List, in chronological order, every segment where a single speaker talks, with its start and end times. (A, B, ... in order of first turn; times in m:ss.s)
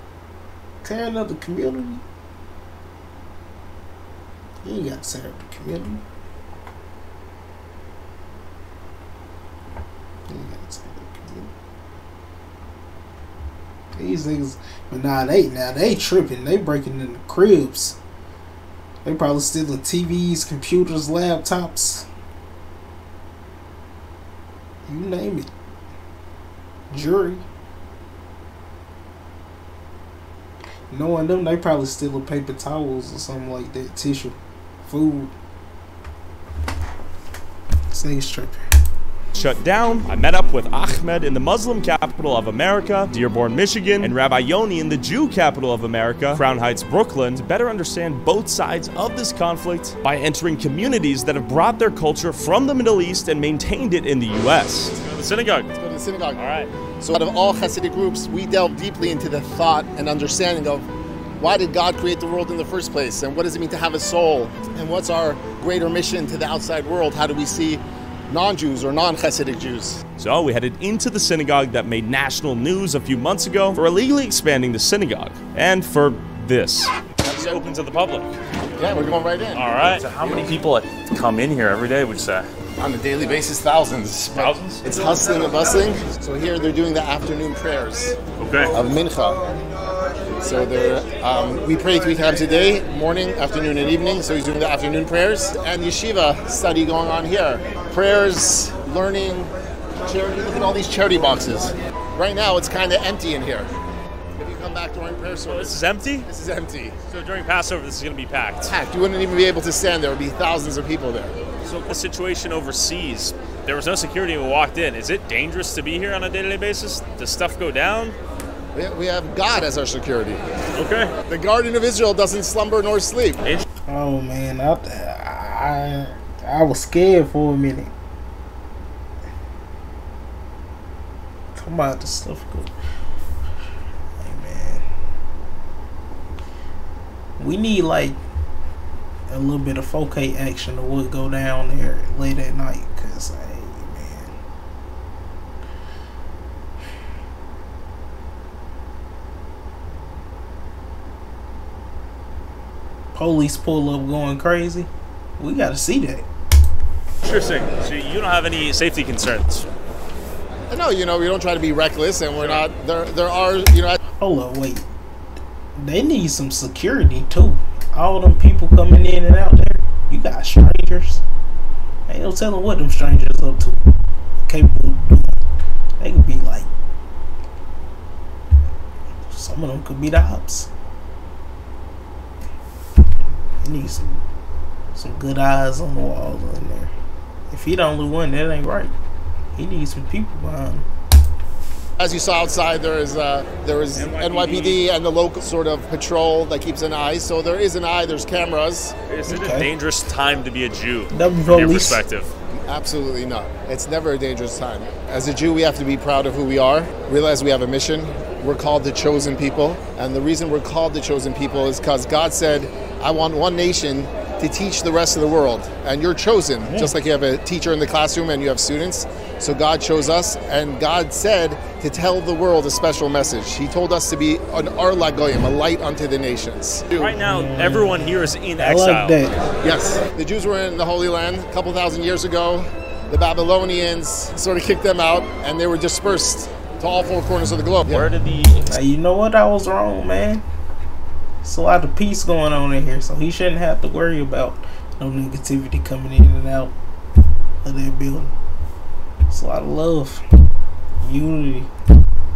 0:00.8-0:02.0 A
0:04.6-0:06.0 A
0:10.3-0:11.5 A
0:14.0-0:18.0 A
0:19.0-0:22.1 A
0:24.9-0:25.5 A
0:26.9-0:27.4 A
0:30.9-0:35.3 A
0:37.9-0:38.6 A
0:39.4-0:55.0 B
0:55.0-0:55.7 C
0:55.7-0:56.4 D
0:56.4-0:56.7 C
0:57.0-1:00.9 D
1:01.4-1:10.0 D
1:10.2-1:16.9 B
1:17.2-1:18.4 C
1:17.3-1:17.6 D
1:18.8-1:20.4 D
1:19.5-1:22.5 C
1:22.8-1:28.2 D
1:24.3-1:24.8 C
1:28.4-1:28.7 C
1:28.7-1:29.4 D
1:30.4-1:39.5 D
1:40.0-1:43.7 D
1:44.4-1:47.0 D
1:45.5-1:46.3 C
1:47.1-1:48.7 C
1:48.6-1:51.4 D
1:51.6-1:58.2 C
1:58.8-2:00.4 D
2:00.8-2:01.1 C
2:01.3-2:03.4 D
2:03.9-2:07.9 A
2:11.6-2:12.7 A
2:14.2-2:14.8 A
2:17.4-2:18.2 A
2:19.3-2:24.4 A
2:33.1-2:36.3 A
2:37.2-2:39.7 C
2:40.7-2:44.0 D
2:42.4-2:42.6 C
2:44.2-2:44.8 A
2:45.8-2:51.2 A
2:52.1-2:53.8 A
2:54.4-2:55.4 A
2:56.0-2:56.7 A
2:59.3-3:00.7 A
3:03.6-3:04.2 A
3:04.9-3:06.9 A
3:07.5-3:08.9 A
3:09.6-3:10.9 A
3:12.0-3:18.9 D
3:14.0-3:14.8 C
3:19.1-3:22.3 C
3:19.3-3:19.7 A
3:21.1-3:22.0 A
3:22.7-3:47.2 D
3:47.0-3:49.2 C
3:47.2-3:49.4 A
3:49.6-3:58.2 D
3:57.9-3:58.8 C
3:58.7-4:00.4 A
4:01.4-4:06.7 A
4:07.6-4:08.3 A
4:09.3-4:10.2 A
4:11.0-4:11.7 A